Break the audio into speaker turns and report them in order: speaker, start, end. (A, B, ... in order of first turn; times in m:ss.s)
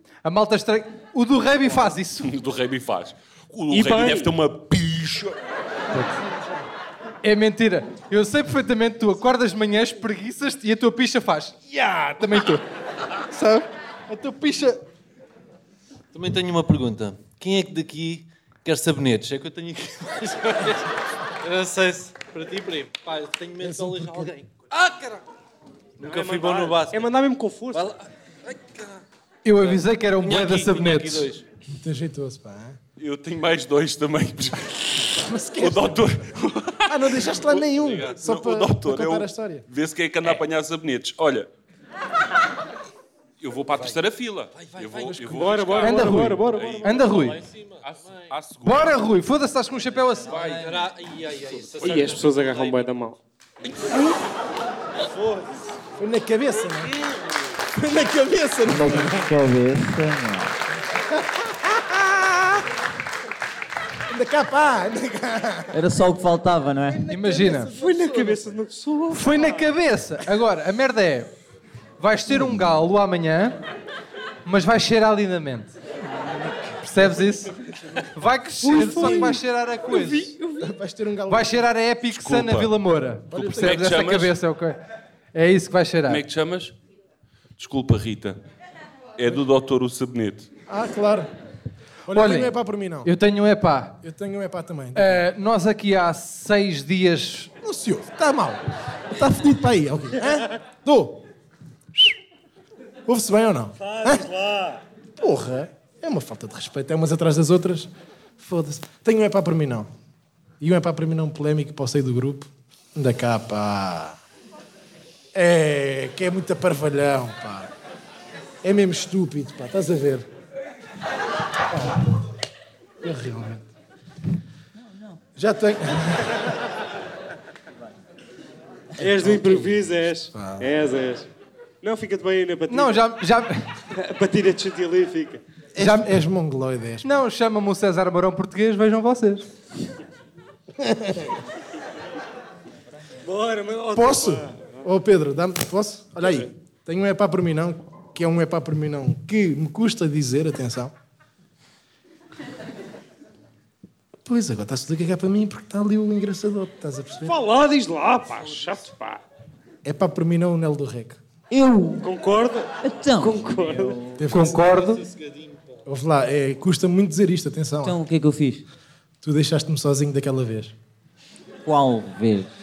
0:00.2-0:02.4 A
0:02.2-0:05.4 B
0:03.7-0:04.3 C
0:05.9-0:06.2 A
0:07.2-0:12.6 A
0:13.3-0:14.8 A
0:16.1-0:25.2 D
0:23.6-0:24.3 E
0:26.0-0:27.1 D
0:26.0-0:27.9 C
0:27.7-0:29.0 D
0:29.4-0:31.3 A
0:29.6-0:31.4 D
0:30.3-0:30.6 B
0:31.8-0:32.8 E
0:33.0-0:41.5 B
0:35.2-0:36.1 E
0:36.8-0:39.6 E
0:43.4-0:47.2 B
0:44.5-0:48.2 D
0:45.3-0:46.8 C
0:45.8-0:47.4 A
0:47.8-0:49.0 B
0:48.6-0:50.4 A
0:50.2-0:50.8 B
0:50.4-0:52.9 D
0:51.8-0:53.2 C
0:55.1-0:55.5 D
0:56.0-0:56.9 E
0:57.7-0:59.3 E
0:58.7-1:00.6 F
1:00.9-1:02.6 E
1:04.1-1:05.8 E
1:05.7-1:07.0 F
1:06.8-1:08.5 E
1:07.1-1:07.7 A
1:07.7-1:09.6 C
1:09.1-1:11.3 A
1:12.0-1:13.6 A
1:12.3-1:12.7 E
1:14.4-1:15.7 A
1:16.2-1:17.5 E
1:16.9-1:17.5 A
1:18.1-1:20.3 A
1:18.6-1:20.7 C
1:18.8-1:19.4 E
1:20.6-1:21.6 E
1:21.3-1:24.8 A
1:22.1-1:22.8 B
1:23.3-1:24.4 B
1:23.3-1:23.8 E
1:25.3-1:26.2 A
1:26.1-1:26.7 B
1:27.6-1:28.4 B
1:29.2-1:30.5 B
1:30.7-1:31.3 E
1:32.1-1:33.1 E
1:32.1-1:34.0 A
1:34.0-1:35.2 E
1:34.9-1:37.5 A
1:37.6-1:41.2 E
1:43.1-1:44.2 E
1:43.8-1:44.8 C
1:45.2-1:49.9 E
1:50.6-1:54.2 E
1:55.3-1:57.7 E
1:58.6-2:00.2 E
2:01.7-2:02.1 E
2:03.0-2:03.7 E
2:05.4-2:06.5 E
2:09.0-2:11.3 C
2:09.0-2:09.8 E
2:10.3-2:10.7 E
2:11.8-2:13.0 C
2:12.7-2:13.6 A
2:13.9-2:15.4 C
2:15.7-2:17.2 E
2:15.8-2:16.2 A
2:17.0-2:19.4 A
2:20.8-2:21.3 E
2:23.2-2:24.8 C
2:23.9-2:30.9 E
2:34.2-2:37.4 E
2:37.2-2:39.2 C
2:39.8-2:41.9 E
2:42.0-2:44.0 C
2:42.8-2:44.1 F
2:44.2-2:44.6 E
2:44.3-2:45.0 A
2:45.8-2:48.0 E
2:47.8-2:48.6 F
2:49.2-2:50.7 E
2:51.6-2:52.5 F